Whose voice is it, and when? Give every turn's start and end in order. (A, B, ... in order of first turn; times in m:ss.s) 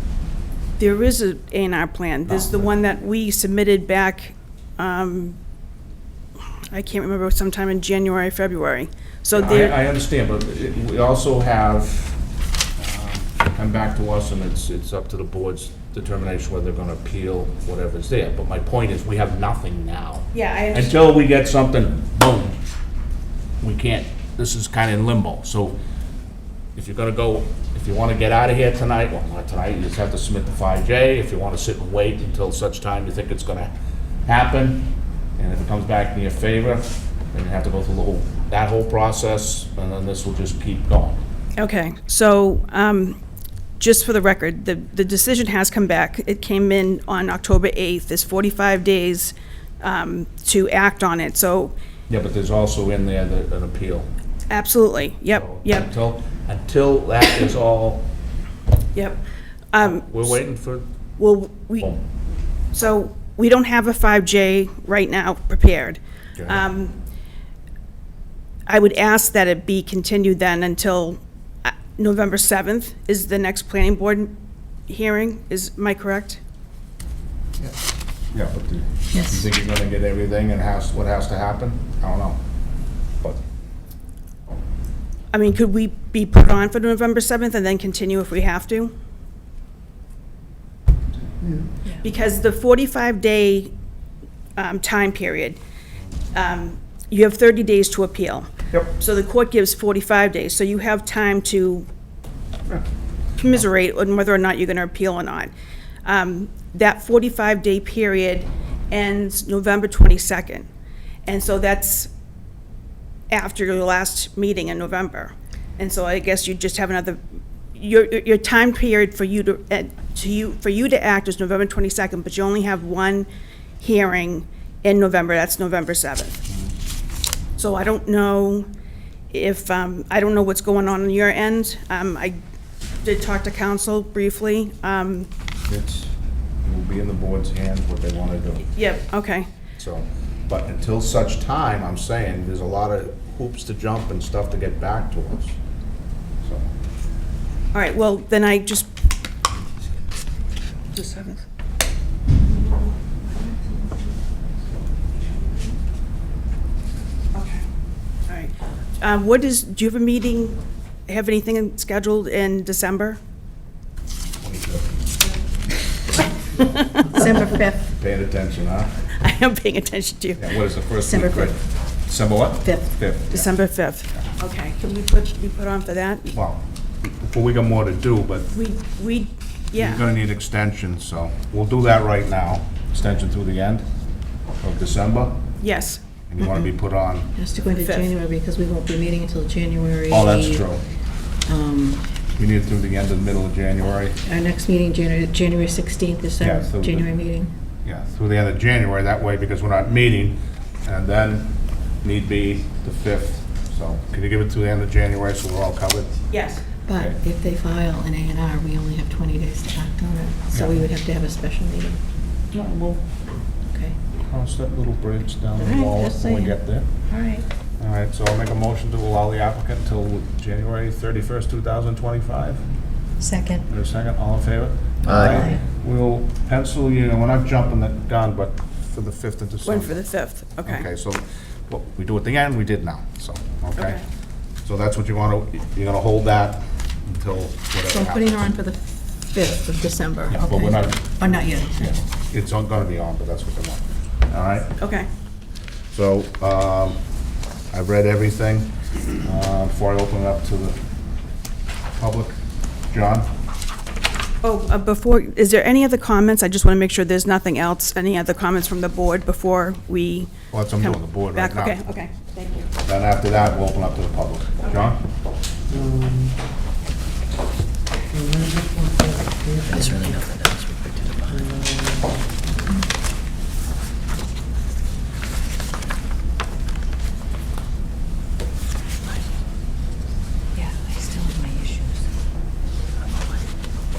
0:00.8-0:05.4 A
0:02.3-0:02.7 B
0:06.7-0:09.8 A
0:09.4-0:12.2 B
0:12.8-0:22.6 B
0:20.3-0:21.0 A
0:23.6-0:25.8 B
0:26.8-0:33.7 B
0:34.3-0:41.2 B
0:41.6-0:43.2 A
0:43.8-0:51.8 A
0:52.1-0:54.1 B
0:54.5-0:55.9 A
0:55.3-0:58.1 B
0:58.9-1:00.4 A
0:59.8-1:00.9 B
1:01.2-1:01.9 A
1:02.7-1:07.0 A
1:06.4-1:06.6 B
1:08.7-1:16.4 A
1:18.3-1:22.4 B
1:19.1-1:19.5 C
1:25.3-1:28.9 A
1:31.4-1:31.7 D
1:32.0-1:33.7 A
1:34.6-1:35.6 A
1:36.3-1:41.9 A
1:43.4-1:45.5 A
1:46.0-1:50.7 A
1:51.3-1:52.1 A
1:53.3-1:57.2 A
1:57.7-2:03.3 A
2:03.8-2:06.4 A
2:07.6-2:08.7 A
2:09.3-2:12.4 A
2:13.0-2:15.3 A
2:15.7-2:16.1 B
2:16.6-2:18.7 B
2:18.6-2:19.5 A
2:19.8-2:25.6 B
2:26.4-2:26.7 B
2:27.7-2:28.9 A
2:30.9-2:31.4 A
2:32.4-2:34.0 A
2:35.2-2:35.7 A
2:37.3-2:37.7 A
2:38.3-2:43.2 A
2:44.4-2:44.9 B
2:46.4-2:47.3 A
2:47.1-2:47.8 C
2:47.9-2:48.9 B
2:49.1-2:50.6 A
2:50.4-2:53.6 B
2:51.0-2:51.5 C
2:52.6-2:52.9 C
2:53.3-2:56.3 A
2:56.3-2:58.5 B
2:58.5-3:00.0 A
2:59.8-3:03.8 B
3:04.6-3:05.4 B
3:05.6-3:06.0 A
3:06.3-3:07.3 B
3:07.4-3:10.6 C
3:07.7-3:08.1 A
3:10.1-3:10.8 B
3:11.5-3:12.0 C
3:12.4-3:14.2 B
3:14.2-3:17.5 C
3:16.4-3:17.1 B
3:17.8-3:26.2 B
3:26.3-3:26.6 A
3:26.9-3:32.0 C
3:26.9-3:27.2 B
3:30.5-3:30.8 B
3:32.5-3:33.0 B
3:34.3-3:36.9 B
3:35.6-3:36.6 C
3:37.1-3:37.4 C
3:37.8-3:42.6 B
3:43.2-3:43.6 C
3:43.7-3:50.0 B
3:45.3-3:45.6 C
3:49.6-3:50.9 A
3:50.6-3:54.0 B
3:53.8-3:54.0 A
3:54.6-3:58.6 B
3:57.9-4:02.0 C
4:00.3-4:04.8 B
4:04.8-4:05.1 A
4:05.9-4:07.0 B
4:07.7-4:10.8 B
4:12.0-4:12.4 B
4:12.9-4:13.3 B
4:14.4-4:22.7 A
4:20.5-4:21.8 B
4:22.8-4:25.0 B
4:24.6-4:25.0 A
4:25.7-4:26.4 D
4:28.1-4:30.2 D
4:29.7-4:31.3 C
4:31.3-4:32.3 D
4:40.6-4:42.0 C